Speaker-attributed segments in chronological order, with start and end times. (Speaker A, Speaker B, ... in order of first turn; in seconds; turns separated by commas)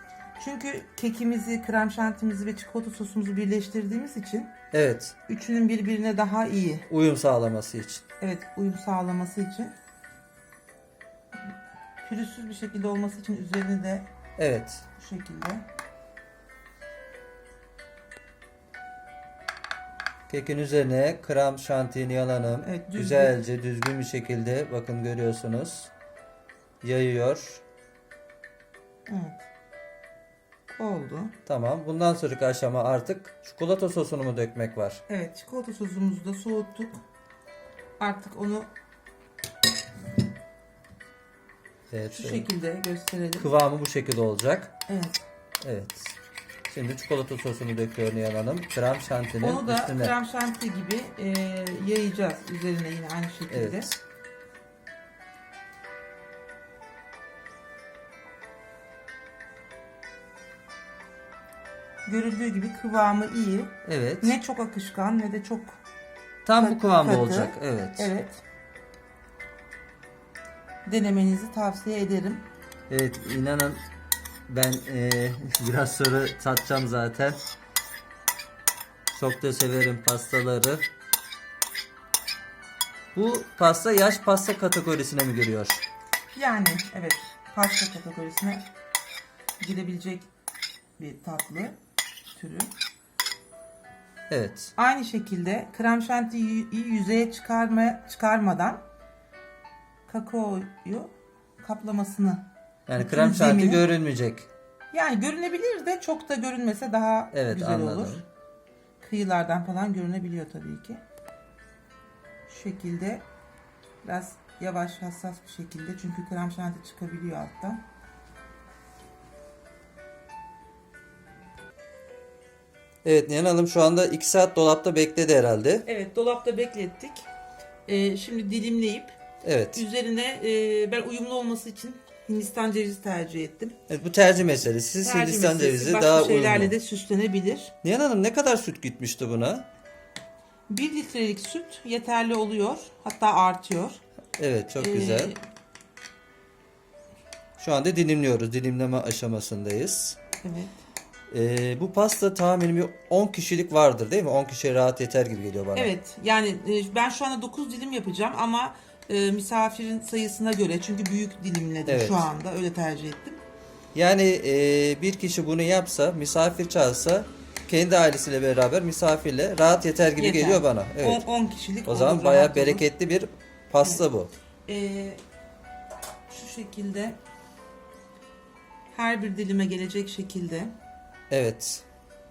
Speaker A: 0.4-4.5, Speaker B: 4.7-5.2, Speaker A: 5.3-6.9, Speaker B: 6.9-8.0, Speaker A: 8.2-9.7, Speaker A: 12.0-14.1, Speaker B: 14.4-14.8, Speaker A: 15.0-15.7, Speaker B: 20.3-25.9, Speaker A: 22.6-23.4, Speaker B: 26.8-27.6, Speaker A: 29.1-29.4, Speaker A: 30.8-31.4, Speaker B: 31.5-35.0, Speaker A: 35.1-37.0, Speaker A: 38.0-38.7, Speaker B: 41.9-42.5, Speaker A: 42.1-43.5, Speaker B: 43.4-44.7, Speaker A: 44.9-45.2, Speaker B: 45.6-46.2, Speaker B: 46.7-50.1, Speaker A: 49.4-53.9, Speaker B: 53.5-54.0, Speaker A: 62.0-65.8, Speaker B: 63.9-64.4, Speaker B: 66.5-68.1, Speaker A: 66.6-68.4, Speaker A: 70.8-72.5, Speaker B: 72.9-73.8, Speaker B: 74.5-77.4, Speaker B: 79.1-80.9, Speaker B: 83.2-85.8, Speaker A: 86.3-88.7, Speaker A: 89.6-90.3, Speaker A: 91.0-91.8, Speaker A: 92.3-92.7, Speaker B: 94.3-94.7, Speaker A: 94.8-98.8, Speaker A: 100.1-103.9, Speaker B: 102.9-104.5, Speaker A: 104.9-108.2, Speaker B: 107.3-108.2, Speaker A: 109.0-111.0, Speaker A: 112.5-113.2, Speaker A: 114.0-117.8, Speaker B: 123.0-125.9, Speaker A: 125.9-127.3, Speaker A: 127.9-129.2, Speaker B: 129.4-129.8, Speaker A: 129.7-133.8, Speaker B: 133.9-136.7, Speaker A: 135.0-137.7, Speaker B: 137.8-139.7, Speaker A: 140.7-144.0, Speaker B: 144.4-145.3, Speaker A: 144.8-145.4, Speaker B: 147.6-150.2, Speaker A: 150.4-150.7, Speaker B: 151.3-155.9, Speaker A: 155.8-163.4, Speaker B: 161.9-162.3, Speaker B: 163.9-171.2, Speaker A: 170.2-172.8, Speaker B: 171.9-174.3, Speaker A: 174.7-175.2, Speaker A: 176.3-177.2, Speaker A: 178.9-180.8, Speaker B: 181.3-181.8